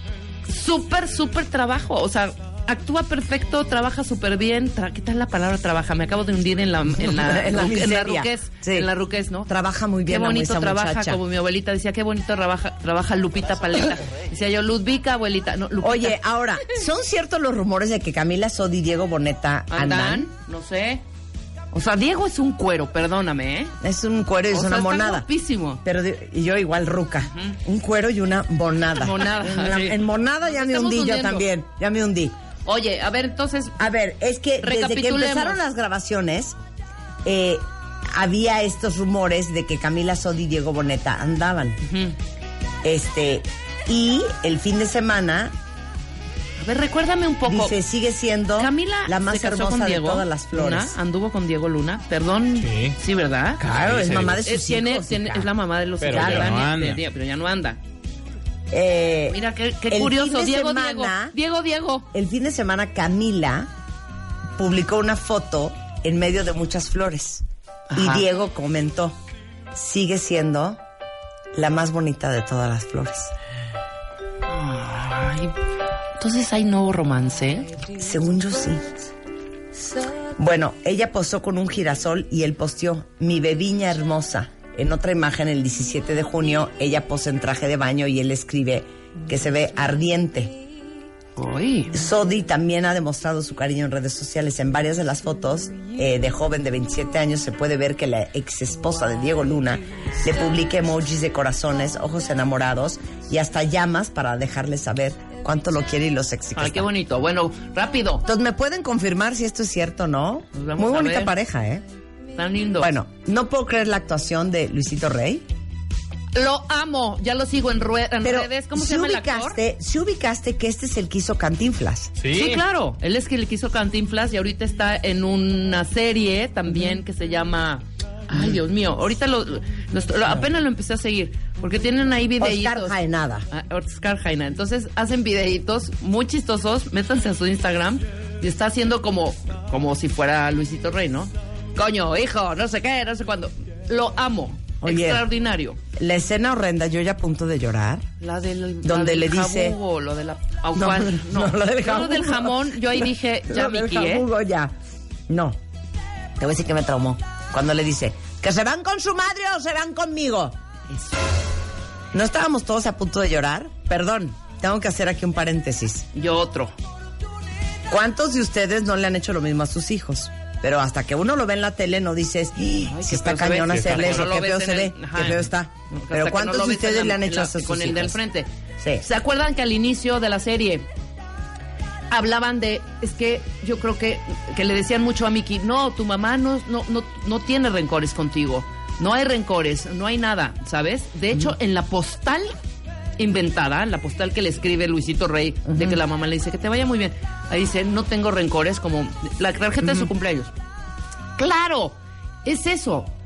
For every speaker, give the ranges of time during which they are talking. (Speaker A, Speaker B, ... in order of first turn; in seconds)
Speaker A: 0.5-9.5, 10.1-16.2, 19.7-21.0, 21.7-23.7, 24.5-25.8, 27.3-27.6, 28.9-31.4, 32.6-33.8, 34.6-35.6, 41.8-42.1, 46.6-47.8, 48.6-53.6, 54.4-57.8, 59.3-62.1, 67.9-68.2, 74.5-75.5, 76.2-77.8, 91.4-91.9, 106.5-108.2, 110.5-111.3, 112.3-112.9, 116.3-119.6, 122.3-132.9, 133.5-145.8, 148.2-154.3, 166.1-166.7, 172.9-178.5, 179.0-180.9, 182.1-192.6, 193.2-200.5, 201.4-203.1
Speaker B: 7.0-8.9, 9.5-11.2, 15.8-20.3, 23.8-25.2, 25.8-32.4, 33.8-36.6, 37.2-41.8, 42.8-45.5, 47.5-51.0, 53.6-55.5, 56.1-56.5, 58.7-61.4, 62.1-63.7, 64.6-69.2, 69.7-70.8, 71.5-73.3, 77.9-78.8, 80.4-90.5, 91.9-106.9, 108.2-111.8, 112.8-115.5, 118.2-122.1, 132.4-133.5, 144.8-145.2, 145.9-148.1, 148.8-149.8, 150.7-154.7, 155.3-155.6, 156.4-160.6, 162.1-166.1, 167.9-178.2, 178.8-179.0, 195.7-196.0, 199.8-200.1
Speaker C: 52.6-53.0, 53.6-54.4, 56.0-57.0, 122.2-122.6, 173.7-174.2